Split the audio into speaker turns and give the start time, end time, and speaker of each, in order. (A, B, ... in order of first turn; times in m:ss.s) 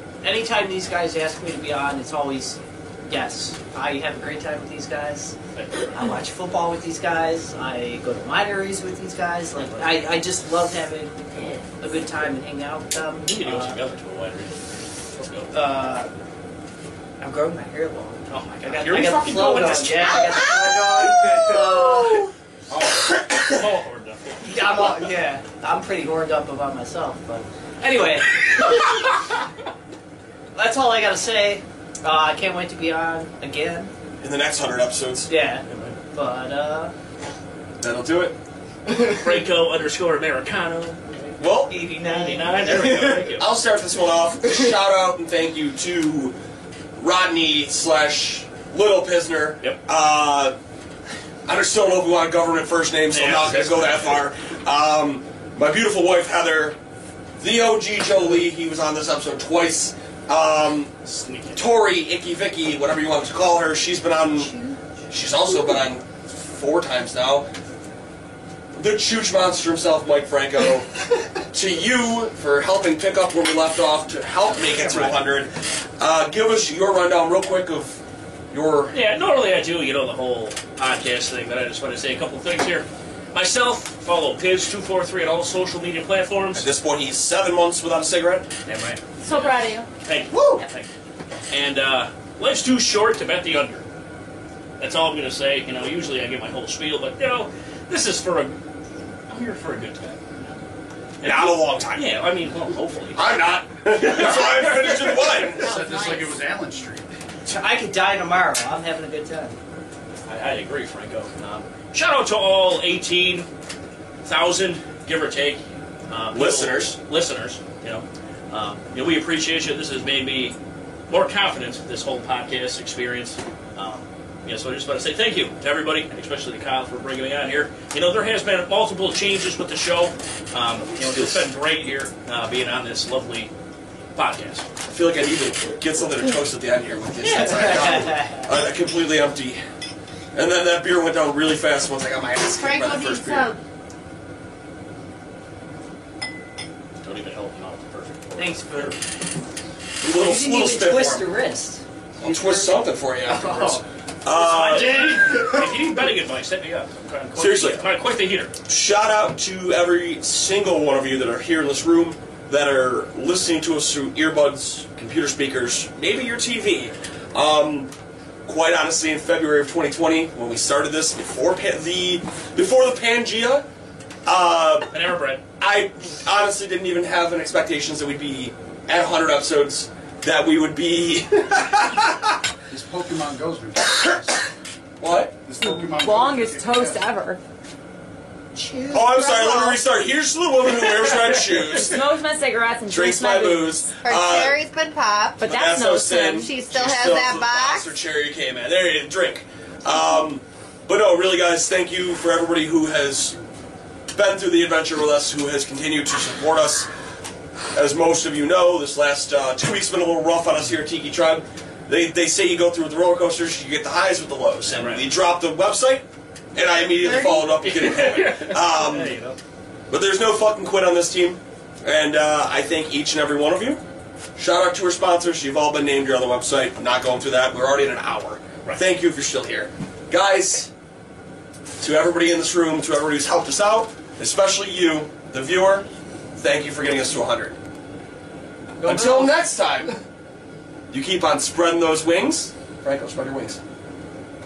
0:00.2-0:05.3 A
0:05.5-0:06.0 B
0:05.9-0:13.8 A
0:13.2-0:14.6 B
0:15.1-0:15.5 B
0:15.5-0:16.1 A
0:17.2-0:22.3 A
0:18.3-0:21.6 B
0:22.7-0:25.1 B
0:24.4-0:29.1 A
0:30.5-0:33.9 A
0:34.2-0:35.3 C
0:35.3-0:36.9 A
0:35.7-0:35.9 B
0:37.8-0:38.4 C
0:39.0-0:41.4 B
0:41.4-0:41.7 C
0:41.7-0:43.2 A
0:41.9-0:43.5 B
0:43.2-0:46.4 C
0:47.0-0:50.5 C
0:51.4-0:56.8 C
0:53.1-0:54.3 B
0:57.4-1:00.9 C
1:01.0-1:01.6 B
1:01.5-1:04.5 C
1:04.3-1:04.8 A
1:05.1-1:07.5 C
1:08.8-1:18.0 C
1:14.6-1:15.2 B
1:18.5-1:18.9 C
1:18.9-1:26.7 B
1:26.6-1:28.5 C
1:28.6-1:29.5 B
1:29.2-1:29.9 D
1:30.0-1:30.9 B
1:30.3-1:30.6 A
1:31.5-1:33.8 B
1:34.8-1:38.6 B
1:39.3-1:40.5 B
1:41.2-1:43.2 B
1:41.2-1:42.2 C
1:43.1-1:45.8 C
1:43.9-1:45.4 B
1:45.6-1:46.4 D
1:45.6-1:47.1 E
1:47.4-1:49.6 A
1:50.3-1:53.5 B
1:54.2-2:00.6 B
1:56.3-1:56.9 C
2:01.1-2:13.5 B
2:11.0-2:11.4 C
2:14.1-2:14.6 B
2:14.8-2:19.6 C
2:17.2-2:18.5 A
2:20.3-2:23.5 C
2:22.6-2:23.6 F
2:27.0-2:28.9 B
2:28.4-2:29.0 A
2:30.0-2:31.3 C
2:30.1-2:33.8 A
2:32.2-2:35.2 C
2:34.3-2:38.5 B
2:34.9-2:35.6 A
2:37.4-2:37.9 C
2:38.6-2:47.9 C
2:48.4-2:53.6 C
2:54.2-2:54.9 C
2:54.9-2:55.4 B
2:55.6-3:02.1 C
3:02.7-3:04.4 E
3:05.0-3:05.4 C
3:05.4-3:07.0 E
3:05.6-3:07.4 D
3:08.5-3:09.0 A
3:08.9-3:09.7 F
3:08.9-3:12.1 C
3:09.4-3:09.8 D
3:11.6-3:13.9 D
3:12.9-3:14.6 C
3:14.0-3:15.5 F
3:15.4-3:16.5 D
3:15.4-3:23.4 C
3:16.4-3:17.9 F
3:24.1-3:26.9 C
3:27.7-3:39.2 C
3:34.6-3:35.1 B
3:37.4-3:39.4 B
3:39.9-3:43.8 C
3:44.4-3:50.7 C
3:51.8-3:55.8 C
3:56.4-3:57.6 C
3:58.8-3:59.3 B
3:58.8-4:00.0 C
4:00.9-4:03.6 C